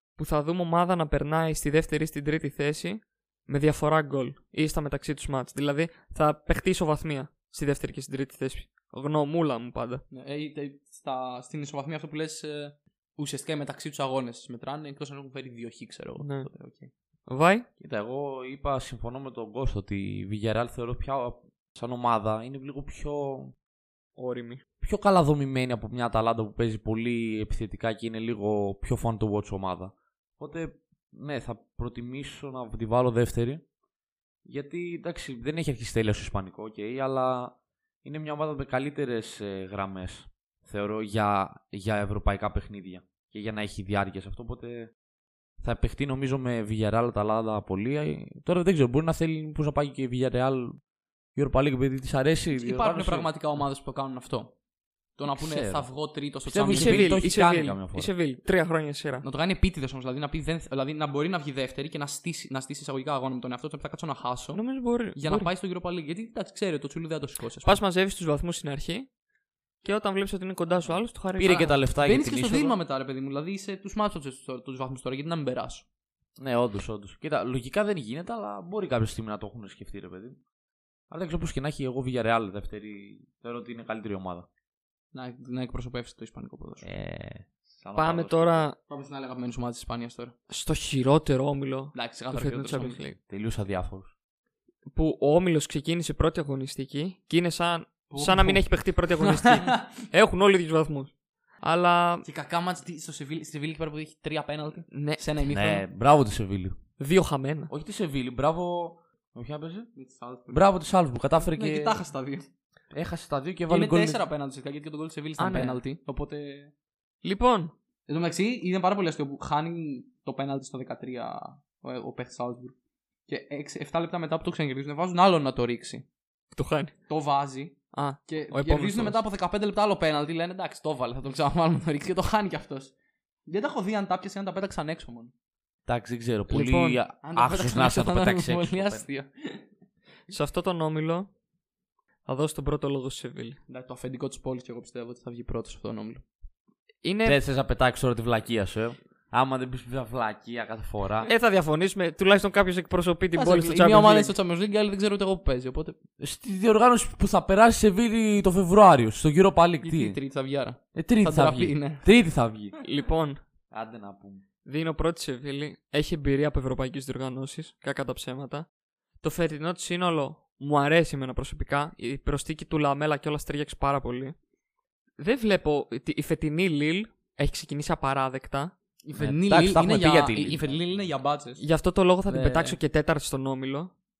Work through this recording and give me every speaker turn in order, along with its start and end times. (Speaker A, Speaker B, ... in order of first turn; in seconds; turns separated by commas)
Speaker A: 0.2-10.0, Speaker B: 10.1-16.9, Speaker A: 16.2-16.5, Speaker A: 17.3-17.6, Speaker C: 17.8-23.5, Speaker A: 24.1-24.6, Speaker C: 24.8-33.6, Speaker C: 34.4-44.9, Speaker C: 45.6-50.8, Speaker C: 51.4-53.3, Speaker B: 52.5-54.5, Speaker B: 55.2-57.3, Speaker C: 55.3-55.9, Speaker C: 56.5-58.1, Speaker A: 56.7-59.2, Speaker B: 59.2-67.8, Speaker A: 64.5-65.5, Speaker A: 67.6-69.1, Speaker A: 69.8-71.8, Speaker C: 71.3-72.8, Speaker B: 72.0-75.8, Speaker C: 76.4-80.4, Speaker C: 81.1-84.5, Speaker B: 85.1-86.9, Speaker C: 86.8-88.6, Speaker A: 88.0-88.8, Speaker B: 88.9-90.3, Speaker A: 90.5-93.2, Speaker B: 91.9-93.0, Speaker C: 93.3-94.1, Speaker A: 94.9-102.2, Speaker B: 98.1-99.9, Speaker B: 102.2-105.8, Speaker A: 104.9-105.2, Speaker C: 105.5-106.8, Speaker A: 107.0-107.7, Speaker C: 107.7-109.9, Speaker B: 109.9-110.7, Speaker C: 110.5-112.0, Speaker B: 111.5-112.5, Speaker C: 112.9-114.2, Speaker B: 113.7-116.7, Speaker A: 115.4-115.8, Speaker A: 117.2-117.7, Speaker B: 118.1-122.7, Speaker B: 123.3-126.0, Speaker A: 126.5-126.9, Speaker B: 127.1-132.9, Speaker A: 127.9-129.2, Speaker B: 133.5-135.3, Speaker C: 135.8-139.0, Speaker A: 136.5-137.0, Speaker B: 137.2-139.6, Speaker A: 140.3-141.3, Speaker A: 142.2-143.6, Speaker B: 143.7-146.2, Speaker A: 147.0-147.4, Speaker C: 147.2-151.3, Speaker A: 151.2-154.3, Speaker B: 153.3-156.0, Speaker C: 156.2-160.2, Speaker B: 159.8-162.0, Speaker C: 160.9-162.8, Speaker A: 162.8-163.4, Speaker C: 163.7-164.4, Speaker A: 164.7-168.7, Speaker A: 169.2-174.3, Speaker A: 175.2-178.7, Speaker B: 179.0-181.6, Speaker C: 179.2-181.1, Speaker A: 181.6-183.9, Speaker C: 182.3-182.8